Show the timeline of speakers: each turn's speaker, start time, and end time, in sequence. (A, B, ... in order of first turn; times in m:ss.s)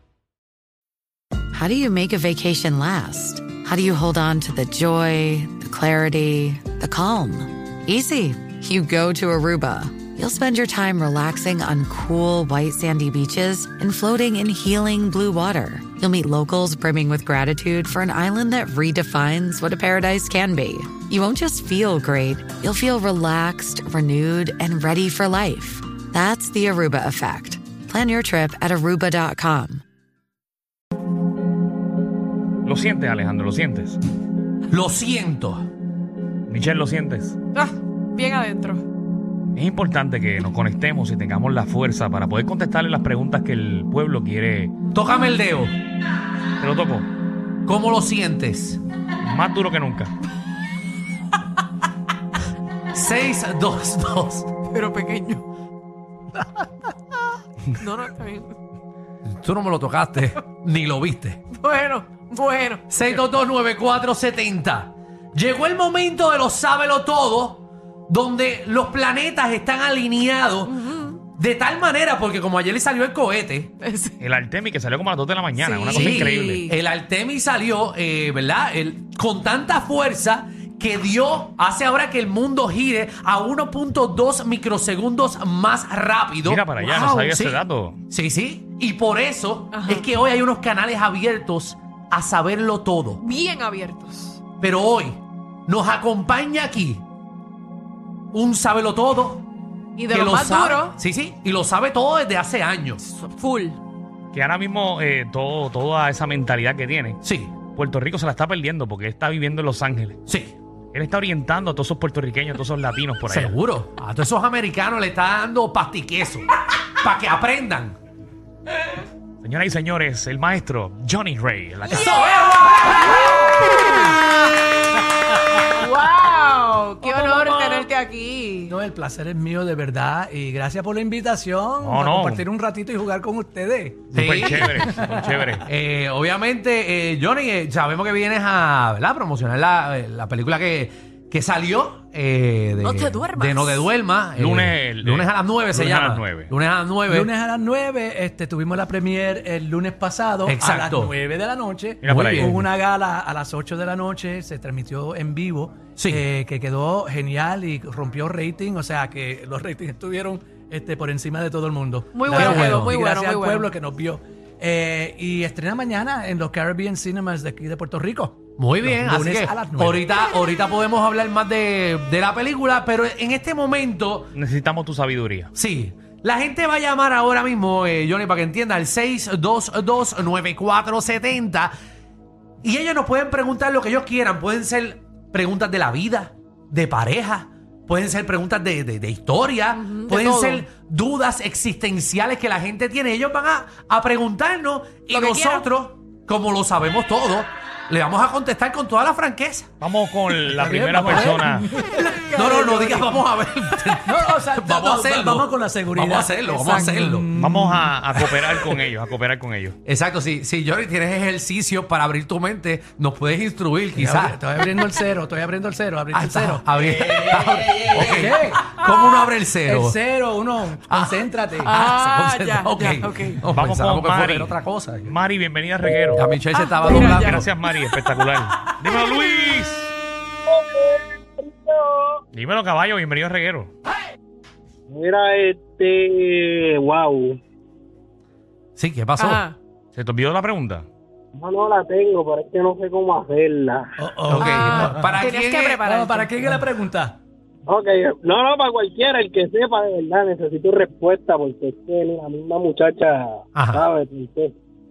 0:01.5-0:29.8 A
0:32.6-0:34.0 B
0:34.7-0:35.7 C
0:36.5-0:37.4 B
0:37.5-0:38.8 D
0:39.5-0:44.7 B
0:44.9-0:45.7 C
0:46.6-0:47.1 B
0:47.6-0:48.8 C
0:49.2-0:50.1 B
0:52.9-0:54.5 C
0:54.7-0:55.4 D
0:57.8-0:58.5 D
0:59.2-1:01.4 C
1:01.5-1:03.1 D
1:02.9-1:10.8 C
1:10.6-1:11.2 D
1:11.3-1:13.7 C
1:13.8-1:14.2 D
1:14.2-1:16.6 B
1:15.5-1:16.7 D
1:15.9-1:33.2 C
1:26.4-1:28.0 B
1:29.7-1:30.0 D
1:33.2-1:34.4 D
1:34.6-1:37.0 C
1:38.3-1:39.4 C
1:40.0-1:41.0 D
1:40.1-1:43.0 C
1:43.0-1:43.8 D
1:44.3-1:50.2 B
1:47.2-1:47.6 C
1:50.2-1:50.5 C
1:50.9-1:53.5 B
1:53.3-1:58.0 C
1:59.4-2:02.4 B
2:01.9-2:03.3 C
2:05.7-2:08.7 D
2:07.0-2:07.8 E
2:08.7-2:15.6 E
2:11.8-2:12.4 B
2:14.1-2:15.0 C
2:14.1-2:15.6 B
2:15.6-2:27.3 C
2:22.8-2:23.9 D
2:24.4-2:26.5 B
2:27.1-2:50.1 E
2:30.4-2:31.1 C
2:32.0-2:32.5 B
2:32.0-2:32.7 C
2:36.0-2:36.2 C
2:42.1-2:43.7 D
2:42.3-2:43.0 C
2:48.6-2:54.3 C
2:54.3-2:55.5 B
2:55.5-3:01.7 C
3:02.6-3:19.7 C
3:09.8-3:10.6 D
3:15.1-3:15.7 D
3:19.8-3:21.7 B
3:20.4-3:22.1 E
3:21.9-3:23.1 D
3:22.3-3:27.3 C
3:24.0-3:27.9 E
3:26.6-3:26.9 D
3:27.3-3:29.8 B
3:28.1-3:28.8 C
3:29.8-3:34.4 C
3:33.9-3:36.7 E
3:36.1-3:40.0 C
3:37.9-3:38.8 E
3:39.6-3:41.8 E
3:40.9-3:45.1 C
3:41.6-3:43.4 D
3:43.5-3:44.5 B
3:45.0-3:46.3 B
3:46.1-3:47.5 C
3:46.5-3:47.5 D
3:47.1-3:49.9 B
3:50.5-3:52.1 F
3:52.3-3:53.7 B
3:54.9-3:57.4 F
3:58.8-3:59.4 C
3:59.2-3:59.6 D
3:59.9-4:00.8 B
4:01.3-4:03.9 F
4:04.0-4:05.2 E
4:04.3-4:05.8 C
4:04.3-4:06.6 D
4:05.8-4:07.2 E
4:07.6-4:14.5 F
4:13.5-4:13.9 C